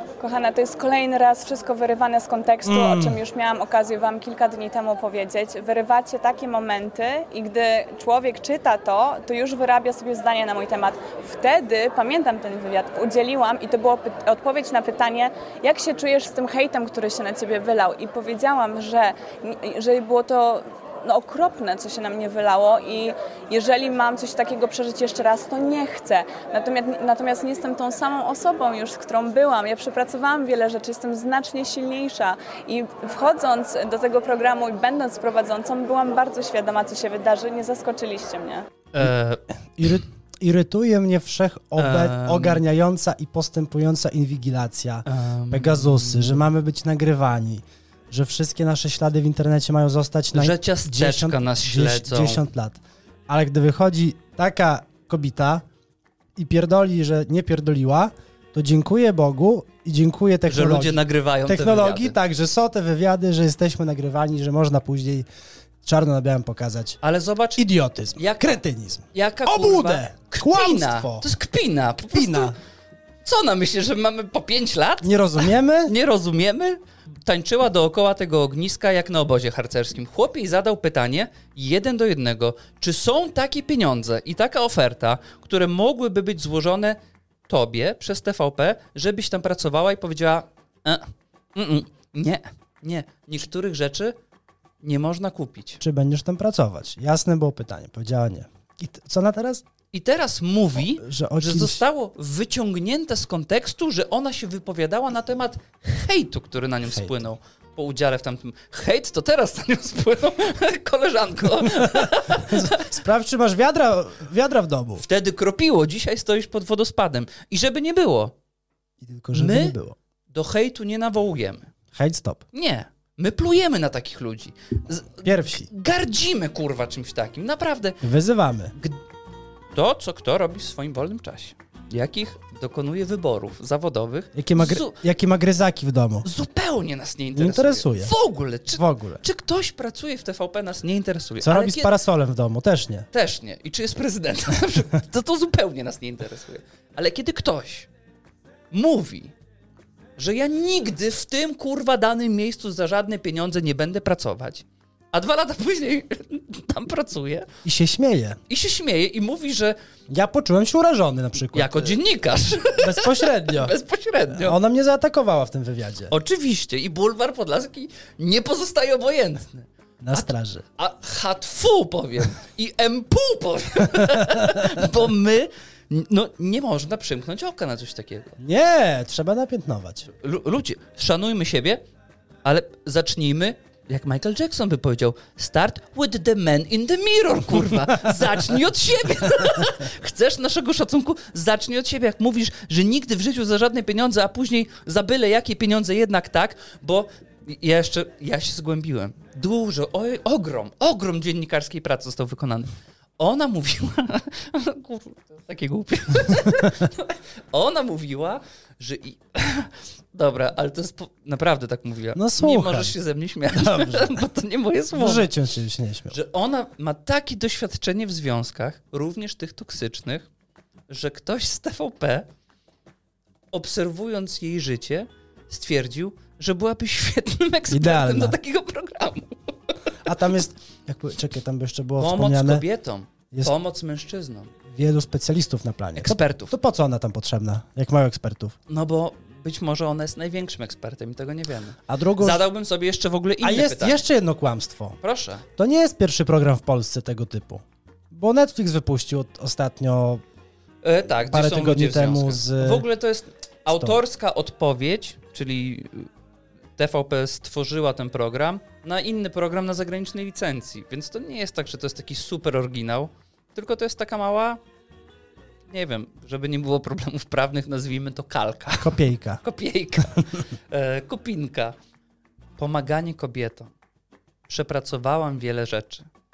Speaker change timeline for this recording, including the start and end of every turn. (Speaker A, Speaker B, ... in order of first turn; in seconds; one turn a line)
Speaker A: 0.2-38.6
Speaker B: 2.6-3.2
Speaker C: 38.9-39.4
Speaker B: 39.8-55.6
Speaker C: 41.8-42.6
Speaker C: 45.1-46.5
Speaker C: 50.3-52.4
Speaker B: 56.4-65.3
Speaker C: 60.5-62.1
Speaker B: 65.8-67.0
Speaker C: 67.0-67.6
Speaker B: 67.6-71.3
Speaker C: 68.2-68.6
Speaker C: 69.1-72.6
Speaker B: 72.1-72.6
Speaker C: 73.2-75.1
Speaker B: 75.0-75.9
Speaker C: 75.8-87.0
Speaker C: 87.5-94.2
Speaker C: 94.8-95.8
Speaker B: 95.8-99.6
Speaker C: 99.9-112.9
Speaker B: 100.8-101.8
Speaker B: 106.9-107.2
Speaker B: 111.7-115.0
Speaker C: 115.0-118.3
Speaker B: 119.0-120.0
Speaker C: 119.3-119.8
Speaker C: 120.3-121.7
Speaker B: 121.9-122.4
Speaker C: 122.5-128.0
Speaker B: 125.2-125.7
Speaker B: 128.0-128.8
Speaker C: 129.7-135.0
Speaker B: 134.3-136.3
Speaker C: 136.2-141.9
Speaker B: 137.3-138.1
Speaker B: 138.7-139.2
Speaker B: 141.4-143.1
Speaker C: 143.1-147.9
Speaker C: 148.7-149.3
Speaker C: 150.2-157.5
Speaker B: 157.6-158.4
Speaker C: 158.5-159.8
Speaker B: 160.1-162.0
Speaker C: 161.5-164.6
Speaker B: 162.7-163.7
Speaker B: 164.3-166.1
Speaker C: 166.1-178.4
Speaker B: 170.0-170.6
Speaker B: 174.1-174.6
Speaker B: 178.4-180.1
Speaker C: 180.1-181.8
Speaker C: 182.4-215.3
Speaker B: 212.1-212.9
Speaker B: 213.5-214.2
Speaker B: 214.9-216.2
Speaker C: 216.1-220.3
Speaker C: 220.9-222.3
Speaker C: 223.5-229.8
Speaker B: 227.7-228.4
Speaker B: 230.0-232.6
Speaker C: 232.0-234.5
Speaker B: 234.7-238.6
Speaker C: 236.0-236.5
Speaker C: 238.7-244.0
Speaker B: 241.9-242.4
Speaker B: 243.4-245.0
Speaker C: 245.0-245.4
Speaker B: 245.6-250.2
Speaker C: 250.8-256.1
Speaker B: 251.2-252.9
Speaker B: 253.7-254.0
Speaker C: 256.8-264.6
Speaker C: 265.7-271.8
Speaker B: 268.8-269.4
Speaker C: 272.6-273.7
Speaker C: 274.5-276.1